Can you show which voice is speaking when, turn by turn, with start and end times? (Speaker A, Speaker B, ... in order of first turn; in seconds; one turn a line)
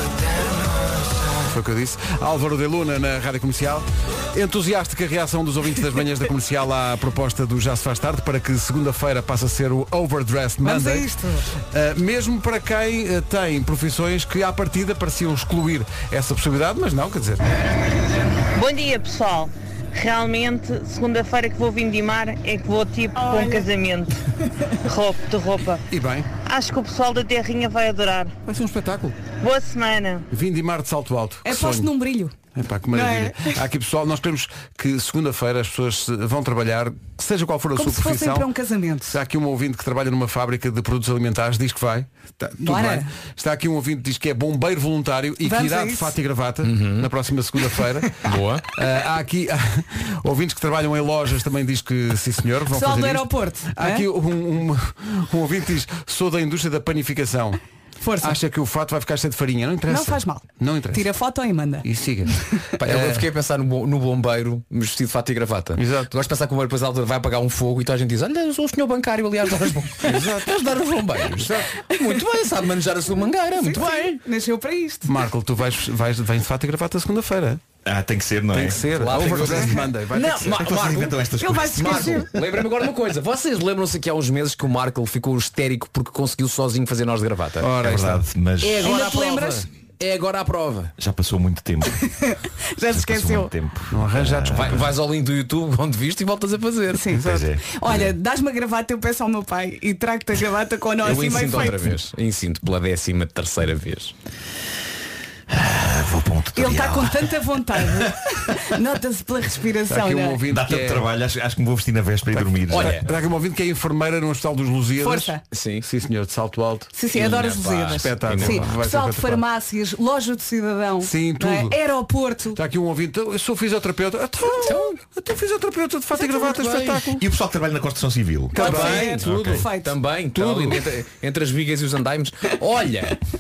Speaker A: 1.4-11.1
Speaker B: 10.6-11.5
Speaker A: 11.6-17.4
Speaker C: 18.5-24.2
Speaker B: 23.2-23.7
Speaker C: 24.8-25.8
Speaker A: 25.9-26.3
Speaker C: 26.4-28.3
Speaker A: 28.4-29.2
Speaker C: 29.4-30.3
Speaker A: 30.3-31.9
Speaker B: 31.4-32.3
Speaker A: 32.5-38.5
Speaker B: 32.9-33.3
Speaker B: 37.8-39.2
Speaker A: 39.1-48.2
Speaker B: 42.6-43.1
Speaker B: 45.4-46.1
Speaker D: 46.6-47.1
Speaker D: 48.2-48.6
Speaker A: 48.7-57.6
Speaker B: 52.7-54.0
Speaker B: 58.0-58.4
Speaker A: 58.2-61.0
Speaker B: 59.9-61.9
Speaker A: 61.8-63.3
Speaker D: 62.8-74.2
Speaker A: 65.8-66.1
Speaker A: 70.0-70.6
Speaker B: 73.6-75.1
Speaker A: 75.1-77.6
Speaker E: 77.8-79.4
Speaker A: 78.5-81.1
Speaker D: 78.8-87.8
Speaker B: 79.5-79.8
Speaker E: 80.5-82.5
Speaker B: 81.3-82.3
Speaker A: 87.6-88.2
Speaker E: 87.8-89.0
Speaker D: 88.6-90.9
Speaker B: 88.8-89.7
Speaker E: 91.0-92.0
Speaker B: 92.0-93.5
Speaker E: 92.9-94.9
Speaker A: 93.9-94.8
Speaker D: 94.4-97.1
Speaker B: 96.9-101.9
Speaker A: 97.1-97.5
Speaker E: 97.2-97.9
Speaker D: 101.0-104.1
Speaker E: 105.5-107.3
Speaker B: 106.5-110.4
Speaker A: 109.9-111.1
Speaker E: 110.5-113.0
Speaker A: 112.3-116.9
Speaker D: 112.7-113.1
Speaker B: 115.0-115.4
Speaker D: 115.5-115.8
Speaker B: 116.9-122.6
Speaker D: 117.1-118.7
Speaker A: 117.9-119.4
Speaker A: 121.0-121.7
Speaker A: 122.5-127.2
Speaker D: 124.6-125.0
Speaker D: 126.2-127.1
Speaker E: 127.2-128.6
Speaker A: 128.5-129.7
Speaker B: 128.5-129.9
Speaker D: 128.5-133.2
Speaker A: 130.3-130.8